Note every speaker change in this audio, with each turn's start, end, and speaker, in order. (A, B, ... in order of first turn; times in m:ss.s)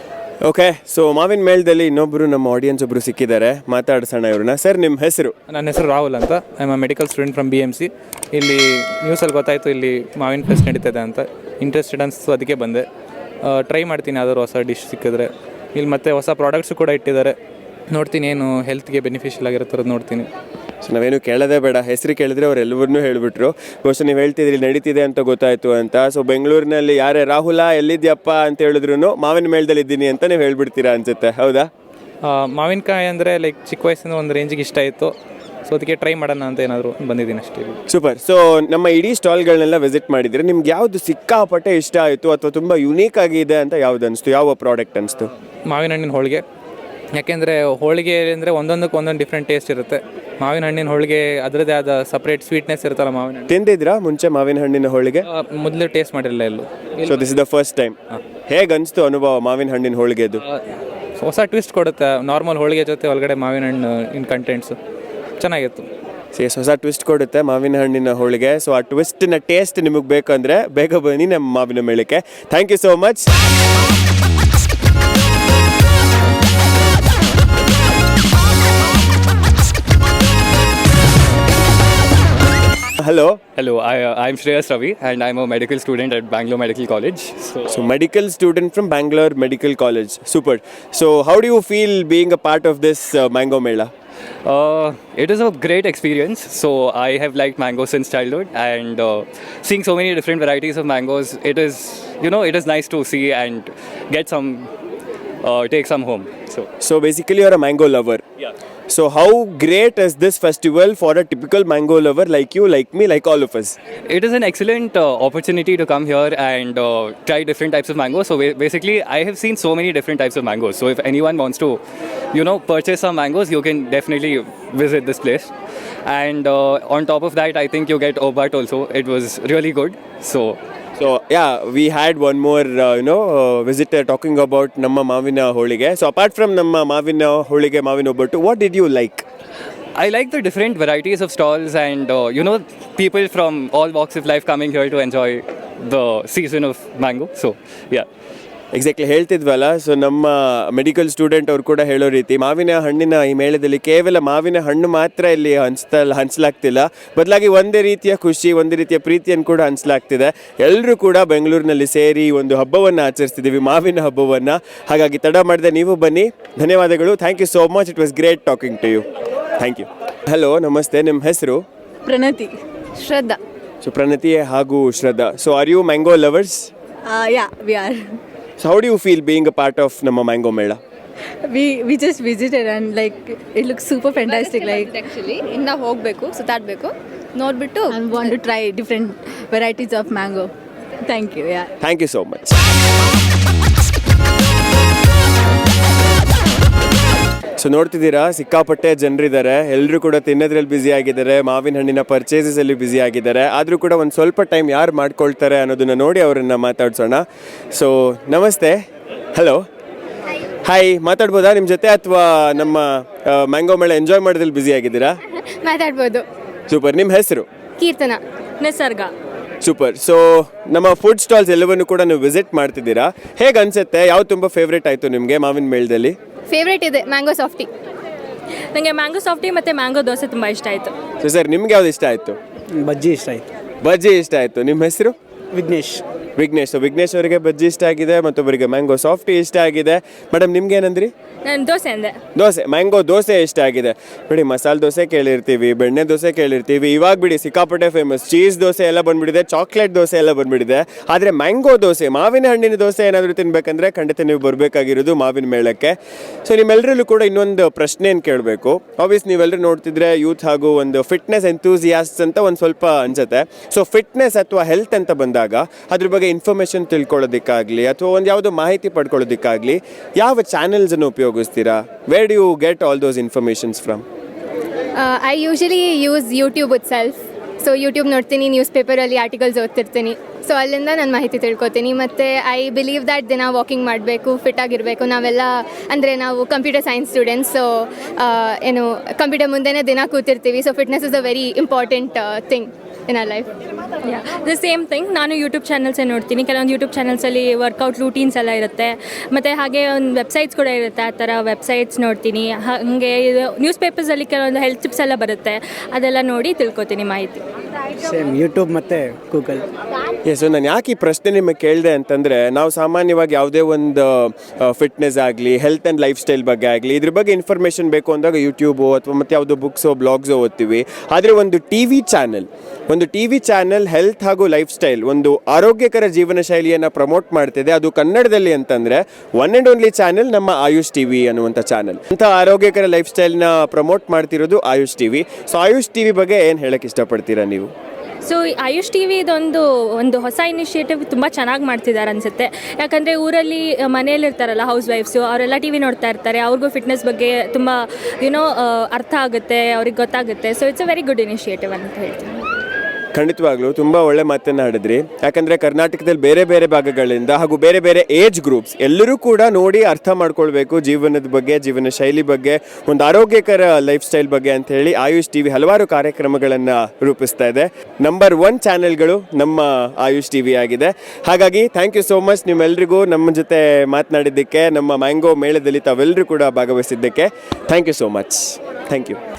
0:00.4-0:05.3 A
0:05.5-0:12.9 B
0:13.4-0:17.4 B
0:17.9-0:20.3 B
0:20.8-0:31.7 A
0:32.2-0:35.1 B
0:35.7-0:37.8 B
0:37.9-0:45.3 A
0:45.6-0:46.4 B
0:47.2-0:53.5 B
0:53.5-0:55.3 A
0:55.3-0:57.2 B
0:57.0-0:58.0 A
0:58.5-1:00.4 A
1:01.2-1:04.8 B
1:05.4-1:05.9 B
1:06.4-1:13.3 A
1:23.0-1:23.4 A
1:23.6-1:27.8 C
1:27.7-1:33.9 A
1:34.4-1:44.7 C
1:45.4-1:46.7 C
1:46.8-1:48.2 A
1:48.9-1:53.8 A
1:54.1-2:01.8 C
2:02.3-2:05.5 C
2:06.1-2:10.6 C
2:11.0-2:19.3 A
2:20.0-2:28.1 C
2:28.7-2:49.1 A
2:49.6-2:51.6 A
2:52.1-2:53.4 D
2:53.8-2:56.7 A
2:57.1-2:58.2 D
2:58.6-3:00.8 A
3:01.5-3:10.5 D
3:11.0-3:11.7 D
3:11.8-3:12.5 A
3:17.6-3:28.8 A
3:29.3-3:29.6 A
3:30.6-3:35.2 A
3:35.6-3:36.2 E
3:36.7-3:37.5 A
3:37.8-3:38.2 E
3:38.6-3:39.1 F
3:39.6-3:46.2 A
3:46.5-3:47.7 E
3:48.7-3:50.9 F
3:51.2-3:52.4 A
3:52.8-3:53.4 G
3:53.8-3:55.2 A
3:55.5-3:56.0 G
3:56.4-4:01.1 A
4:01.5-4:02.2 F
4:02.4-4:34.0 A
4:35.0-4:53.5 E
4:54.1-5:07.4 F
5:08.0-5:09.7 G
5:10.2-5:37.7 A
5:38.2-5:52.4 F
5:53.1-6:19.2 A